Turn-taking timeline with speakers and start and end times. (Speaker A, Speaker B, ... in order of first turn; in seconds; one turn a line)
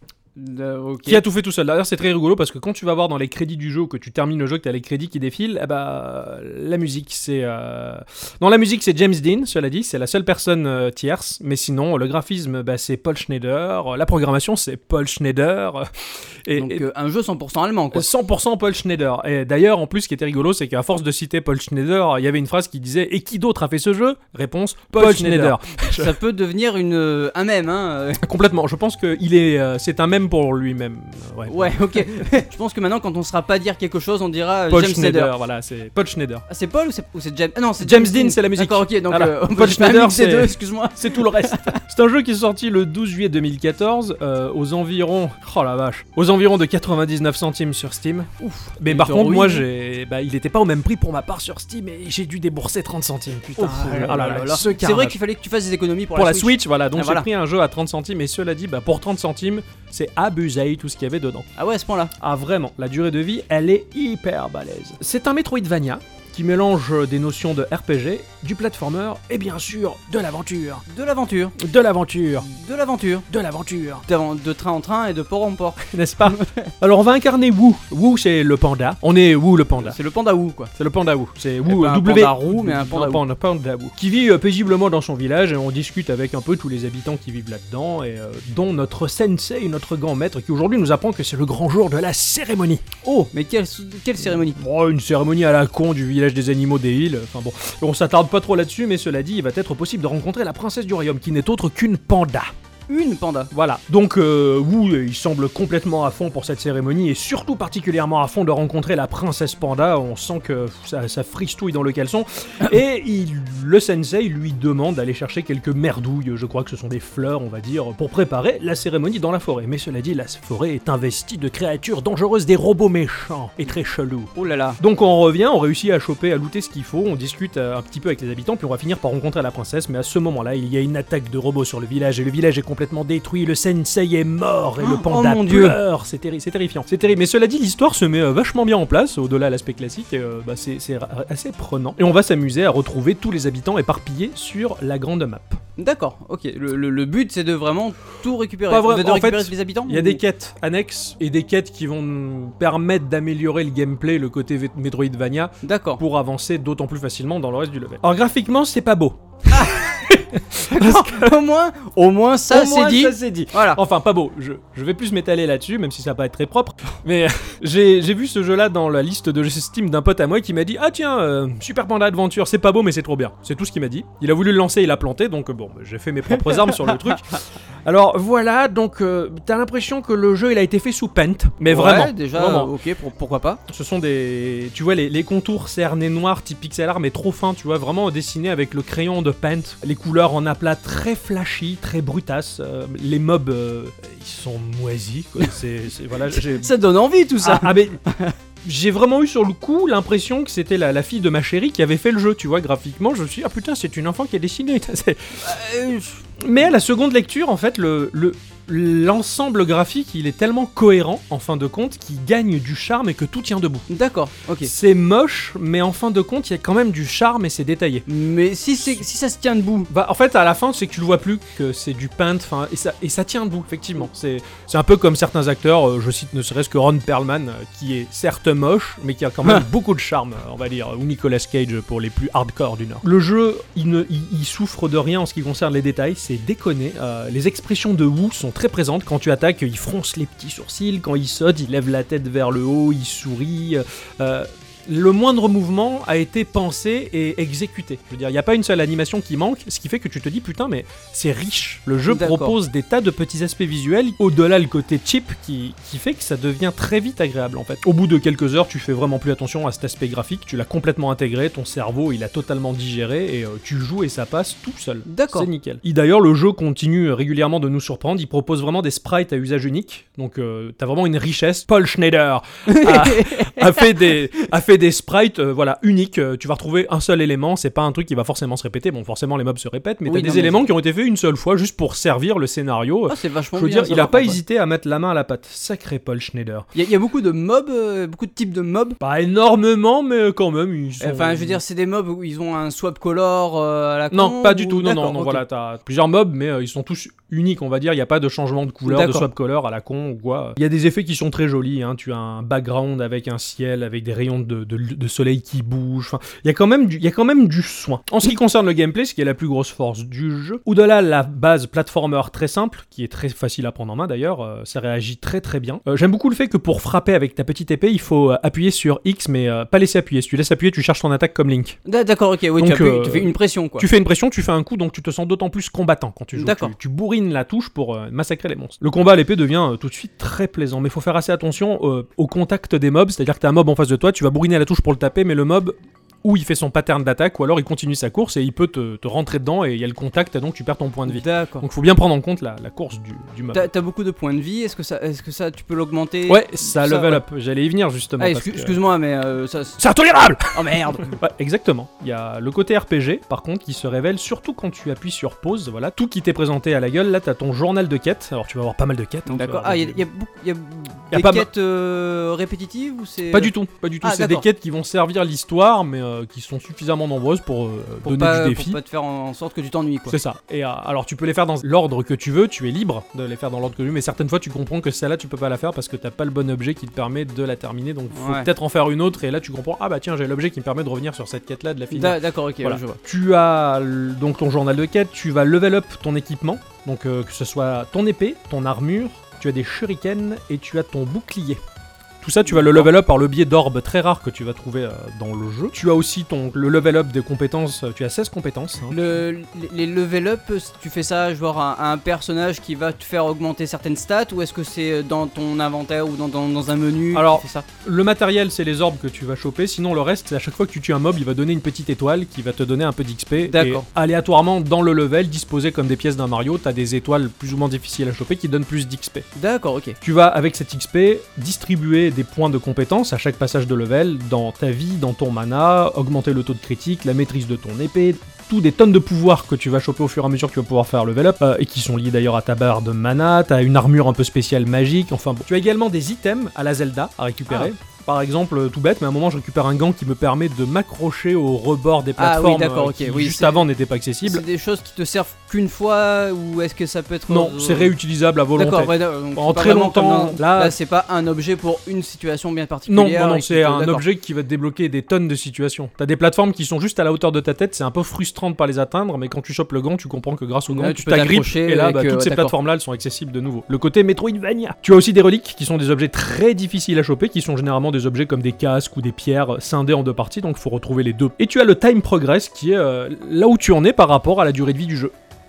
Speaker A: 0.3-1.2
Speaker B: 1.1-16.8
Speaker A: 16.5-18.1
Speaker B: 17.9-26.1
Speaker A: 24.9-28.2
Speaker B: 28.2-32.2
Speaker A: 31.5-35.3
Speaker B: 34.7-36.5
Speaker A: 36.5-41.8
Speaker B: 37.8-55.2
Speaker A: 48.4-49.6
Speaker A: 53.6-57.3
Speaker B: 56.1-61.5
Speaker A: 61.5-62.1
Speaker B: 62.2-70.8
Speaker A: 70.9-71.5
Speaker B: 71.6-72.5
Speaker A: 72.5-73.3
Speaker B: 73.3-74.0
Speaker A: 74.1-76.7
Speaker B: 75.8-80.0
Speaker A: 79.8-80.7
Speaker B: 80.8-92.8
Speaker A: 81.7-83.2
Speaker A: 93.0-94.6
Speaker B: 94.4-102.5
Speaker A: 102.9-103.5
Speaker B: 103.5-145.6
Speaker A: 124.3-124.8
Speaker A: 134.8-135.8
Speaker A: 145.8-150.2
Speaker B: 148.7-161.4
Speaker A: 155.6-156.0
Speaker A: 159.5-163.8
Speaker B: 162.5-182.7
Speaker A: 176.5-177.2
Speaker A: 181.7-183.6
Speaker B: 183.7-196.7
Speaker A: 196.3-198.3
Speaker B: 197.4-198.0
Speaker B: 198.6-205.5
Speaker A: 205.4-206.4
Speaker B: 206.4-213.9
Speaker A: 213.9-214.7
Speaker B: 214.6-218.1
Speaker A: 218.1-219.9
Speaker B: 219.9-286.7
Speaker A: 252.1-252.6
Speaker A: 265.1-265.5
Speaker A: 272.7-274.1
Speaker A: 280.1-280.6
Speaker A: 283.1-284.4
Speaker A: 286.7-289.0
Speaker B: 289.0-291.6
Speaker A: 291.0-295.4
Speaker B: 294.1-321.8
Speaker A: 298.9-299.3
Speaker A: 321.9-323.9
Speaker B: 322.5-343.7
Speaker A: 326.3-326.7
Speaker A: 341.1-341.6
Speaker A: 343.5-347.2
Speaker B: 346.3-348.8
Speaker A: 348.2-349.8
Speaker B: 349.8-360.0
Speaker A: 350.5-351.2
Speaker A: 359.2-364.4
Speaker B: 361.1-361.5
Speaker B: 363.3-368.8
Speaker A: 368.0-370.2
Speaker B: 370.1-391.6
Speaker A: 378.1-378.5
Speaker A: 381.9-383.0
Speaker B: 392.2-399.0
Speaker A: 392.4-392.9
Speaker A: 398.9-407.6
Speaker B: 407.1-419.3
Speaker A: 413.4-413.9
Speaker A: 419.4-420.0
Speaker B: 420.0-444.4
Speaker A: 442.2-443.7
Speaker A: 444.2-447.9
Speaker B: 447.3-450.8
Speaker A: 448.5-454.0
Speaker B: 452.9-475.1
Speaker A: 460.7-462.5